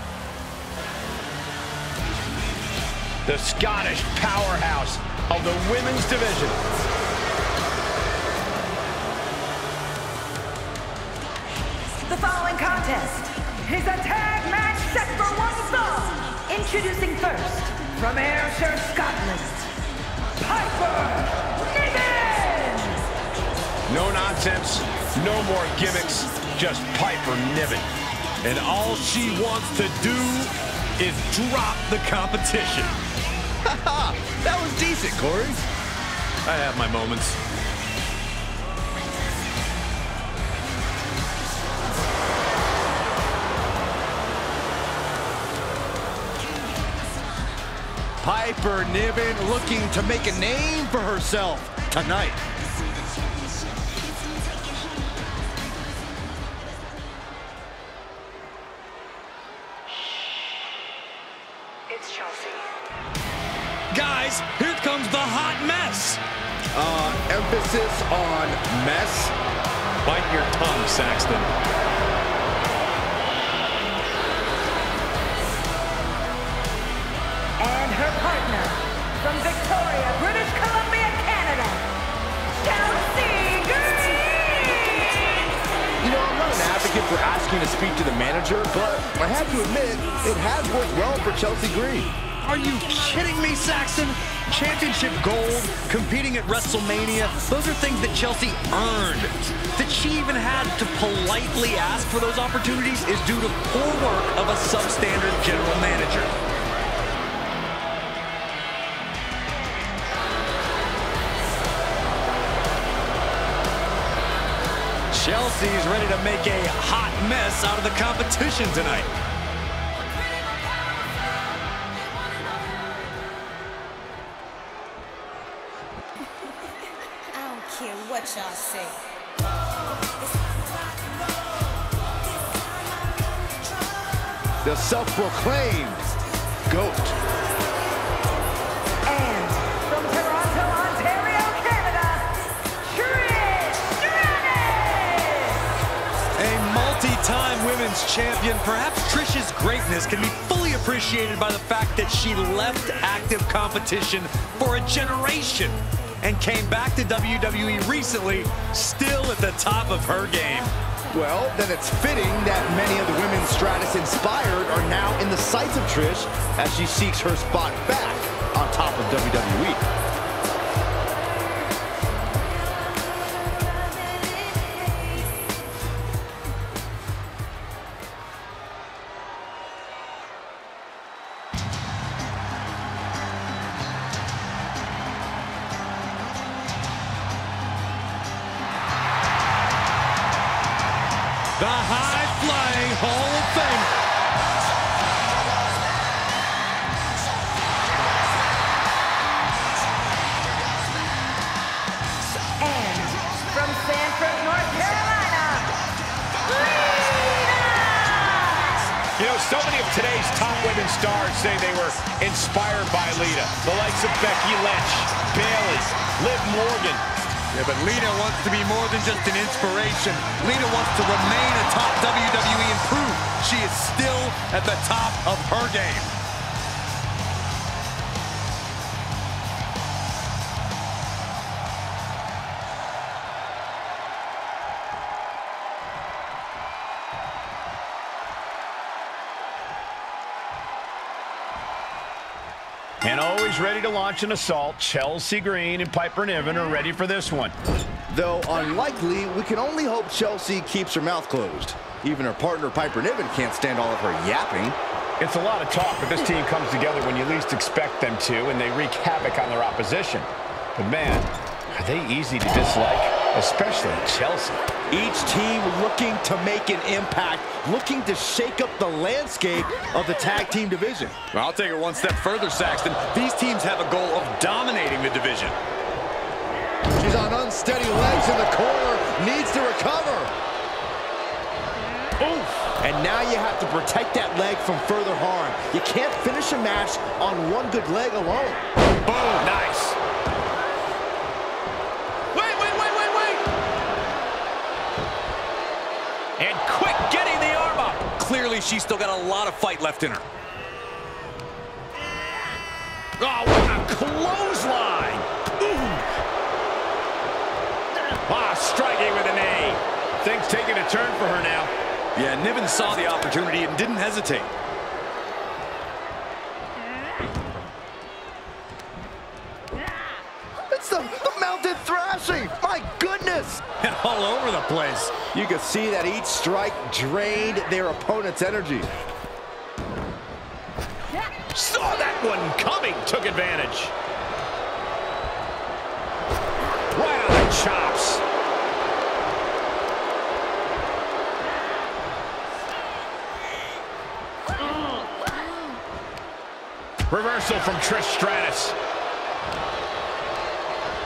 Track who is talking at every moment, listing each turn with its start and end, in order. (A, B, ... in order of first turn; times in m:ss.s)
0:03.2-0:06.6 A
0:12.0-0:19.7 B
0:20.4-0:23.0 B
0:23.9-0:27.9 A
0:28.4-0:32.9 C
0:33.6-0:35.6 D
0:36.4-0:37.4 C
0:48.2-0:52.4 D
1:01.9-1:02.6 B
1:03.9-1:06.2 C
1:06.7-1:09.3 D
1:10.0-1:11.5 C
1:17.6-1:21.8 B
1:22.6-1:25.4 B
1:26.0-1:32.1 D
1:32.4-1:46.3 C
1:55.1-1:59.1 C
2:07.3-2:09.0 B
2:14.6-2:16.0 D
2:16.7-2:17.2 D
2:19.0-2:25.7 B
2:26.4-2:40.7 C
2:41.1-2:49.8 D
3:11.6-3:13.9 C
3:22.6-3:25.7 B
3:26.4-3:29.0 B
3:29.2-3:37.0 A
3:37.5-3:46.1 C
4:03.0-4:07.6 A
4:08.1-4:14.8 D
4:15.2-4:24.6 A
4:24.9-4:31.2 D
4:31.3-4:35.6 C
4:37.0-4:40.3 D
4:42.2-4:42.7 A
4:42.8-4:48.6 D
4:49.0-4:49.5 C
4:49.4-4:50.0 A
4:52.3-4:53.4 A
4:56.4-4:58.1 A
4:58.2-5:00.2 C
5:03.2-5:06.0 A
5:08.2-5:11.7 A
5:12.2-5:14.5 C
5:20.7-5:23.6 D
5:23.8-5:25.2 C
5:25.3-5:28.9 D
5:31.5-5:33.9 A
5:36.9-5:38.2 A
5:47.1-5:48.8 A